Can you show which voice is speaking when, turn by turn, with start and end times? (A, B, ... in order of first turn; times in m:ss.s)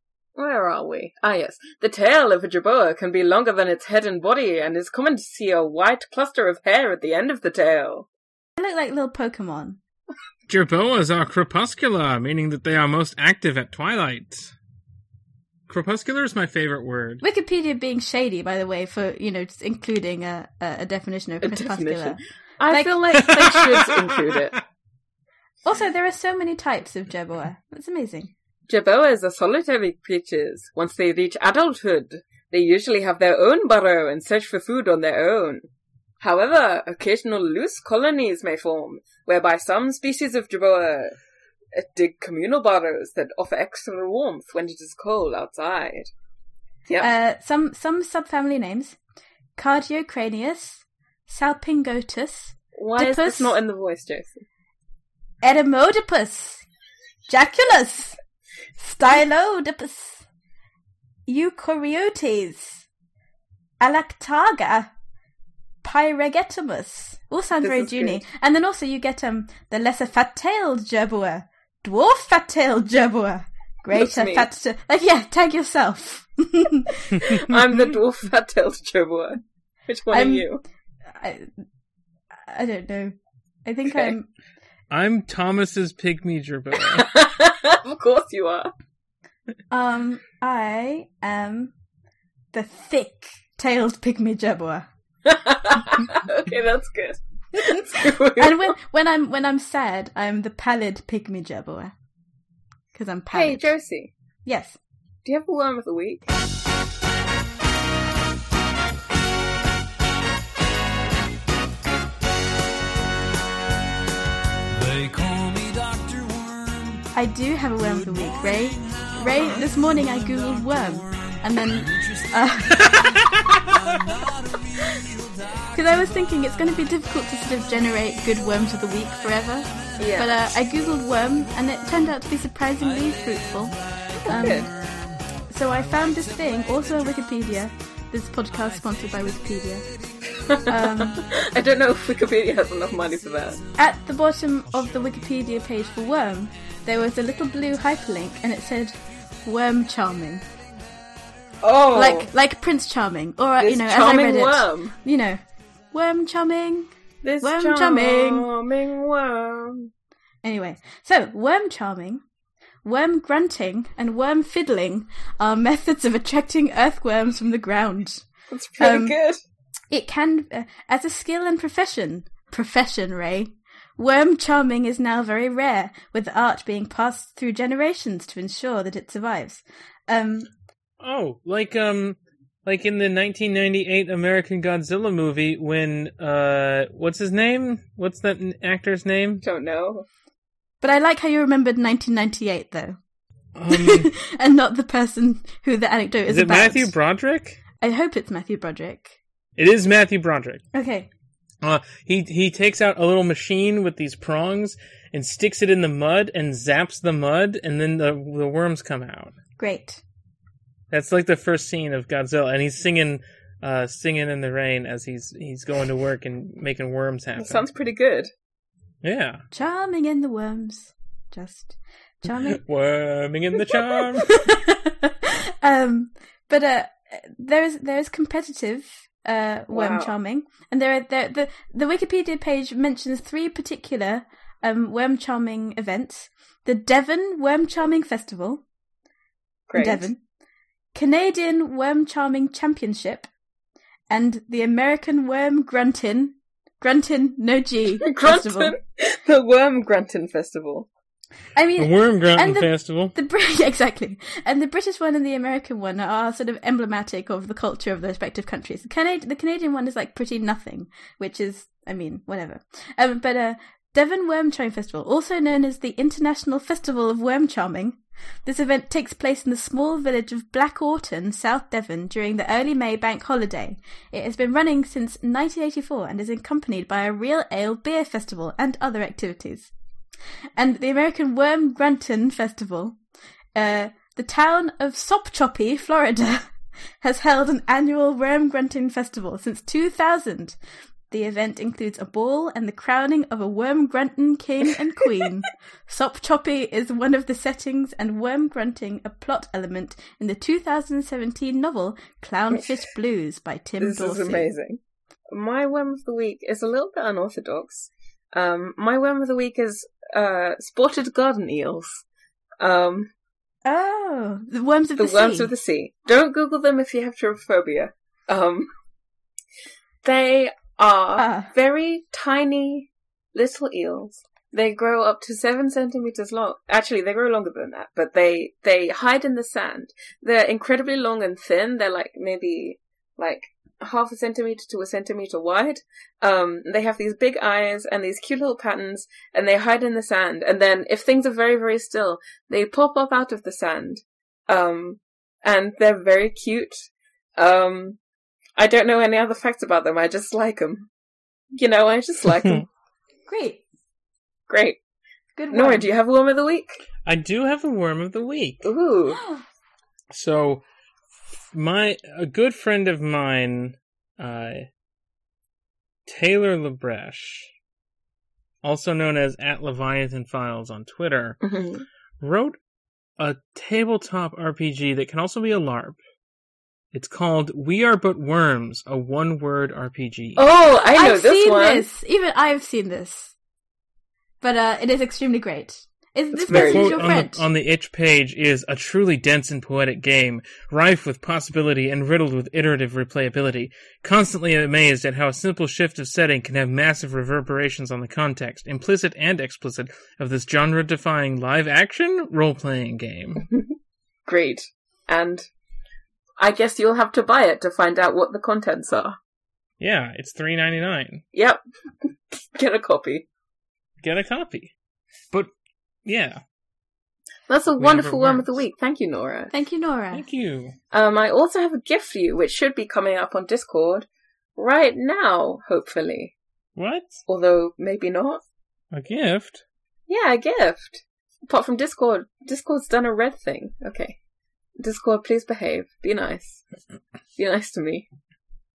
0:00.4-0:08.1 A
0:08.6-0:09.8 B
0:10.5-0:14.5 C
0:15.7-0:17.2 C
0:17.2-0:23.0 B
0:21.4-0:24.6 A
0:23.2-0:24.1 C
0:25.6-0:28.3 B
0:28.7-0:35.6 A
0:36.2-0:41.1 A
0:41.7-0:46.1 A
0:47.0-0:49.0 B
0:49.6-0:53.6 B
0:52.8-0:54.4 A
0:55.4-0:56.6 B
0:57.3-0:58.2 B
0:58.8-1:00.2 B
1:01.3-1:02.8 B
1:03.8-1:04.9 B
1:05.8-1:17.2 B
1:07.6-1:08.2 A
1:13.9-1:14.5 A
1:17.2-1:20.6 A
1:17.3-1:17.6 C
1:20.1-1:20.5 B
1:21.1-1:21.5 B
1:22.3-1:24.3 B
1:24.9-1:27.1 C
1:26.9-1:28.7 A
1:29.7-1:31.7 B
1:32.5-1:34.9 B
1:35.2-1:38.7 A
1:37.6-1:41.9 B
1:42.9-1:43.7 B
1:43.3-1:44.1 A
1:44.4-1:44.8 B
1:45.2-1:46.2 A
1:54.7-1:57.0 D
1:57.1-2:03.0 B
1:57.8-2:06.3 D
2:05.7-2:14.7 B
2:08.6-2:12.1 D
2:10.0-2:10.4 A
2:12.8-2:17.3 D
2:14.2-2:14.7 A
2:15.5-2:19.8 B
2:18.6-2:20.6 D
2:20.4-2:23.6 A
2:20.7-2:21.2 B
2:23.1-2:23.8 D
2:23.8-2:30.4 B
2:24.7-2:25.2 D
2:31.6-2:32.3 A
2:31.9-2:35.4 B
2:33.6-2:35.0 A
2:35.9-2:38.5 B
2:37.2-2:39.9 A
2:40.4-2:42.2 B
2:42.8-2:48.2 B
2:48.5-2:49.4 A
2:48.8-2:49.2 B
2:49.9-3:00.5 B
3:01.0-3:09.4 C
3:09.4-3:10.0 A
3:10.8-3:13.0 B
3:13.5-3:14.1 C
3:13.7-3:16.9 B
3:16.3-3:17.6 C
3:17.8-3:19.2 B
3:19.6-3:20.6 C
3:20.7-3:21.1 B
3:21.6-3:29.4 C
3:29.6-3:30.0 B
3:30.9-3:37.6 C
3:37.4-3:38.3 A
3:39.0-3:39.4 C
3:39.5-3:42.6 B
3:42.4-3:44.3 C
3:44.2-3:58.6 B
3:49.7-3:50.1 A
3:59.7-4:00.1 A
3:59.7-4:00.2 B
4:00.9-4:03.3 B
4:04.1-4:08.7 B
4:08.0-4:10.9 A
4:11.5-4:39.7 B
4:11.8-4:13.1 C
4:40.6-4:43.0 B
4:43.5-4:50.6 B
4:51.1-5:04.5 B
5:03.8-5:04.8 A
5:05.3-5:12.0 A
5:12.6-5:13.1 A
5:13.6-5:15.5 B
5:15.0-5:18.7 A
5:20.0-5:48.0 A
5:21.2-5:21.5 B
5:48.6-5:50.9 A
5:51.5-5:52.6 A
5:53.3-5:53.6 B
5:54.5-5:54.8 A
5:55.4-5:55.9 B
5:55.5-5:56.8 A
5:57.0-5:58.7 C
5:58.6-5:59.2 A
6:00.1-6:00.6 C
6:01.5-6:04.7 C
6:06.1-6:07.5 C
6:08.6-6:11.4 C
6:11.4-6:11.8 A
6:12.2-6:12.6 C
6:13.2-6:16.0 C
6:16.9-6:20.5 C
6:20.4-6:21.8 A
6:20.8-6:23.3 B
6:24.4-6:27.4 B
6:26.4-6:27.1 A
6:26.5-6:43.5 C
6:44.2-6:45.4 A
6:46.4-6:49.2 A
6:49.8-6:51.2 C
6:51.3-6:51.6 A
6:52.5-6:53.2 A
6:54.0-6:54.7 C
6:56.0-6:56.4 C
6:57.5-6:59.5 A
6:57.8-6:58.6 C
6:59.5-7:00.2 B
7:00.1-7:00.7 C
7:00.9-7:04.0 A
7:04.6-7:06.3 A
7:06.8-7:07.2 C
7:07.3-7:08.4 A
7:08.9-7:09.6 C
7:10.1-7:14.2 A
7:14.8-7:16.6 A
7:17.4-7:18.1 A